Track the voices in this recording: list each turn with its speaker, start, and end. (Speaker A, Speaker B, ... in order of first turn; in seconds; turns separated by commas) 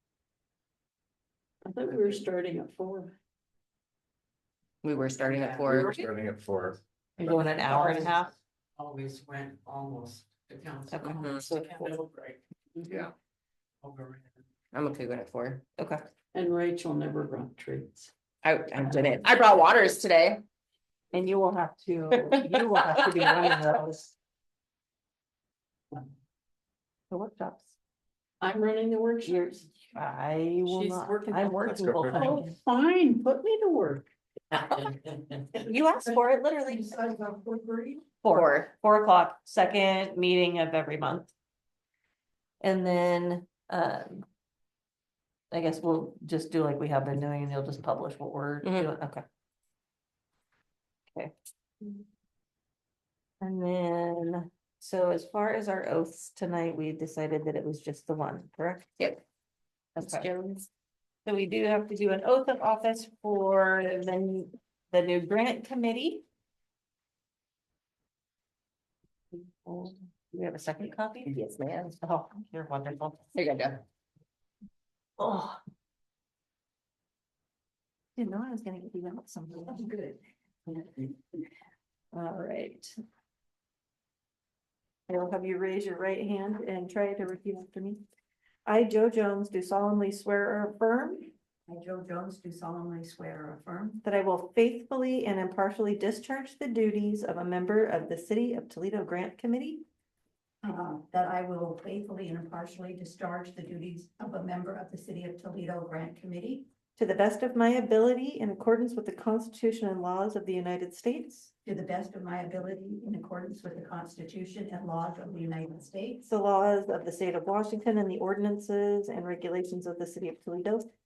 Speaker A: 1.6-3.1, Speaker B: 4.8-6.0, Speaker A: 5.1-6.1, Speaker C: 5.7-6.8, Speaker D: 7.2-8.3, Speaker A: 7.2-13.1, Speaker D: 10.9-11.9, Speaker B: 11.0-11.5, Speaker C: 12.9-13.1, Speaker A: 13.8-14.3, Speaker B: 14.7-15.6, Speaker D: 15.8-16.0, Speaker A: 16.3-18.1, Speaker B: 18.4-20.4, Speaker A: 18.8-19.1, Speaker D: 21.1-24.1, Speaker D: 27.1-27.8, Speaker A: 28.4-29.8, Speaker D: 29.2-32.6, Speaker A: 30.6-35.2, Speaker C: 31.7-32.4, Speaker D: 35.5-37.0, Speaker A: 36.7-38.0, Speaker D: 38.2-41.3, Speaker B: 38.3-38.7, Speaker D: 42.6-44.2, Speaker D: 45.5-49.2, Speaker B: 48.6-48.9, Speaker D: 51.1-52.0, Speaker D: 53.4-58.9, Speaker D: 60.0-60.3, Speaker B: 60.0-60.7, Speaker D: 61.2-66.2, Speaker D: 69.4-71.3, Speaker B: 71.2-72.0, Speaker D: 72.0-73.3, Speaker B: 73.3-73.8, Speaker D: 75.2-75.6, Speaker D: 78.2-80.2, Speaker D: 82.1-82.9, Speaker D: 85.1-88.0, Speaker D: 88.7-91.3, Speaker E: 91.7-94.0, Speaker D: 94.0-99.8, Speaker E: 100.6-106.7, Speaker D: 107.0-111.5, Speaker E: 111.6-116.2, Speaker D: 116.3-120.8